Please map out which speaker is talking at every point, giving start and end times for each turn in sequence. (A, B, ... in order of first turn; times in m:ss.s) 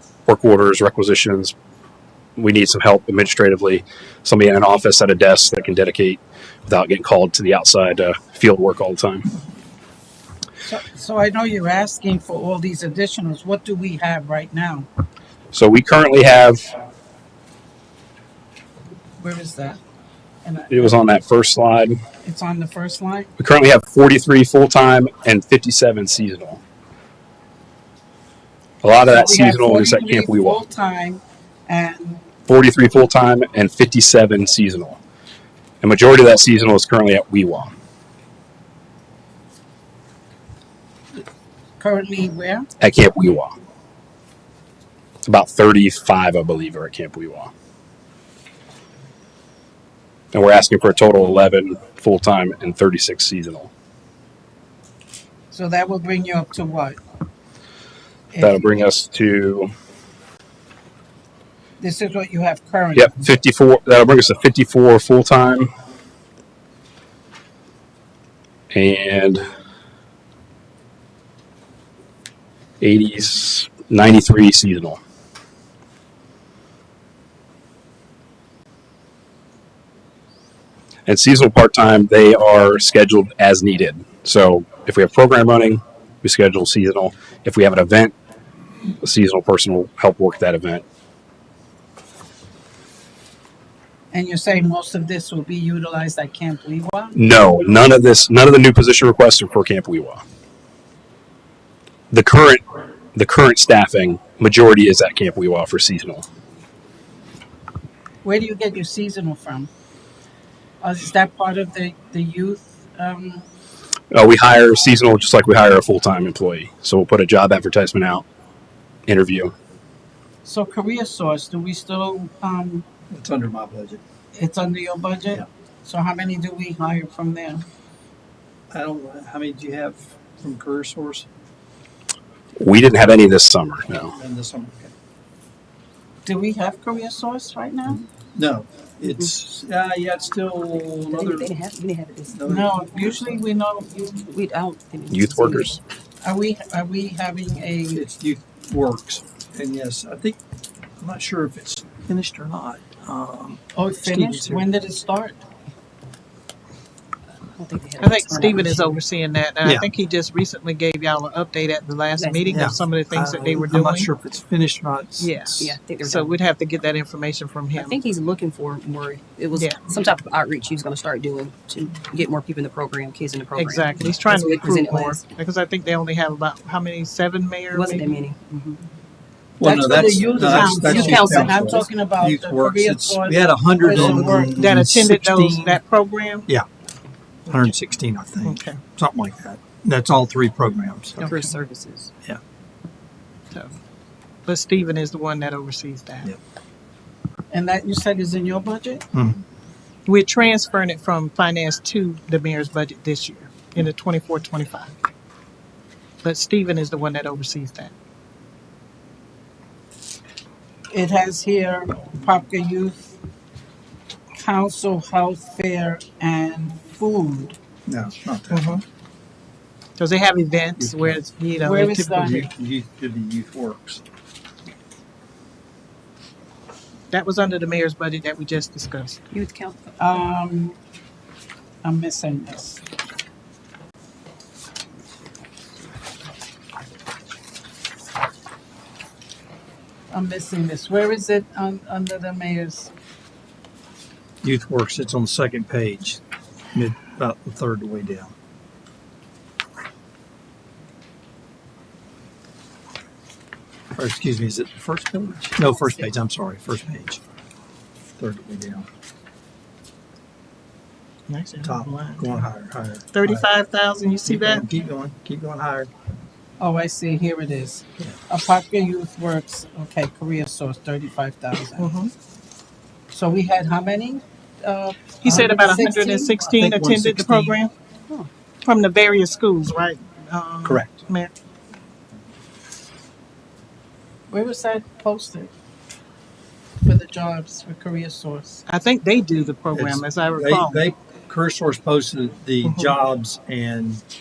0:00.3-0:01.5 A
0:02.4-0:09.3 A
0:10.6-0:14.9 B
0:15.5-0:16.7 A
0:19.2-0:19.8 B
0:20.4-0:21.0 B
0:20.7-0:22.0 A
0:22.2-0:23.3 B
0:23.4-0:26.6 A
0:28.8-0:30.6 A
0:29.0-0:32.2 B
0:32.5-0:35.0 A
0:35.8-0:37.7 A
0:41.8-0:42.7 B
0:42.8-0:43.6 A
0:45.2-0:47.5 A
0:50.3-0:53.7 A
0:55.5-0:57.0 B
0:58.3-0:58.9 B
0:58.4-0:59.7 A
1:01.8-1:03.3 B
1:03.0-1:05.7 A
1:08.7-1:09.4 A
1:12.8-1:15.0 A
1:21.1-1:28.2 A
1:29.0-1:30.8 A
1:34.1-1:37.2 B
1:37.2-1:40.2 A
1:42.1-1:46.3 A
1:48.2-1:49.7 B
1:50.8-1:53.5 B
1:54.1-1:58.3 A
1:59.1-1:59.5 A
2:00.4-2:02.8 B
2:03.1-2:04.0 C
2:04.3-2:07.6 B
2:08.7-2:11.3 C
2:12.6-2:14.1 A
2:14.1-2:14.9 C
2:16.2-2:18.0 B
2:18.4-2:21.5 C
2:21.1-2:22.7 D
2:22.3-2:23.2 C
2:22.5-2:24.2 B
2:24.2-2:25.8 D
2:25.1-2:25.8 A
2:26.2-2:28.0 B
2:27.9-2:30.4 C
2:31.0-2:34.7 C
2:33.8-2:35.4 B
2:37.6-2:39.0 D
2:38.0-2:44.1 E
2:39.6-2:39.9 C
2:42.2-2:42.7 D
2:42.5-2:45.8 C
2:45.2-2:48.0 E
2:45.6-2:46.4 D
2:47.7-2:55.3 D
2:49.6-2:49.8 E
2:53.6-2:58.2 E
2:57.7-2:58.8 D
2:59.6-3:05.8 C
2:59.6-3:04.6 B
3:00.3-3:01.9 D
3:04.4-3:06.5 E
3:07.5-3:11.2 C
3:08.4-3:08.8 E
3:11.2-3:11.5 E
3:11.2-3:12.1 D
3:14.5-3:16.3 E
3:17.5-3:19.1 B
3:19.1-3:19.4 C
3:20.1-3:25.0 E
3:26.2-3:27.9 E
3:30.9-3:33.2 B
3:34.4-3:37.6 B
3:37.9-3:38.8 C
3:38.5-3:38.8 E
3:40.0-3:42.5 E
3:40.8-3:41.2 C
3:41.6-3:42.4 B
3:42.1-3:44.0 C
3:47.1-3:49.3 E
3:49.3-3:49.8 D
3:50.0-3:50.8 B
3:51.8-3:52.8 B
4:00.1-4:02.9 B
4:04.4-4:06.2 C
4:06.7-4:08.3 C
4:13.9-4:17.2 C
4:18.2-4:18.9 C
4:21.3-4:22.4 E
4:21.6-4:23.5 C
4:23.1-4:24.6 E
4:24.2-4:25.9 C
4:26.6-4:32.0 B
4:31.8-4:32.1 E
4:33.1-4:36.4 B
4:35.2-4:37.7 E
4:36.5-4:37.6 C
4:38.6-4:41.3 E
4:40.6-4:41.0 C
4:44.3-4:45.5 B
4:46.8-4:48.6 B
4:48.7-4:50.8 E
4:49.7-4:54.0 C
4:52.6-4:53.0 E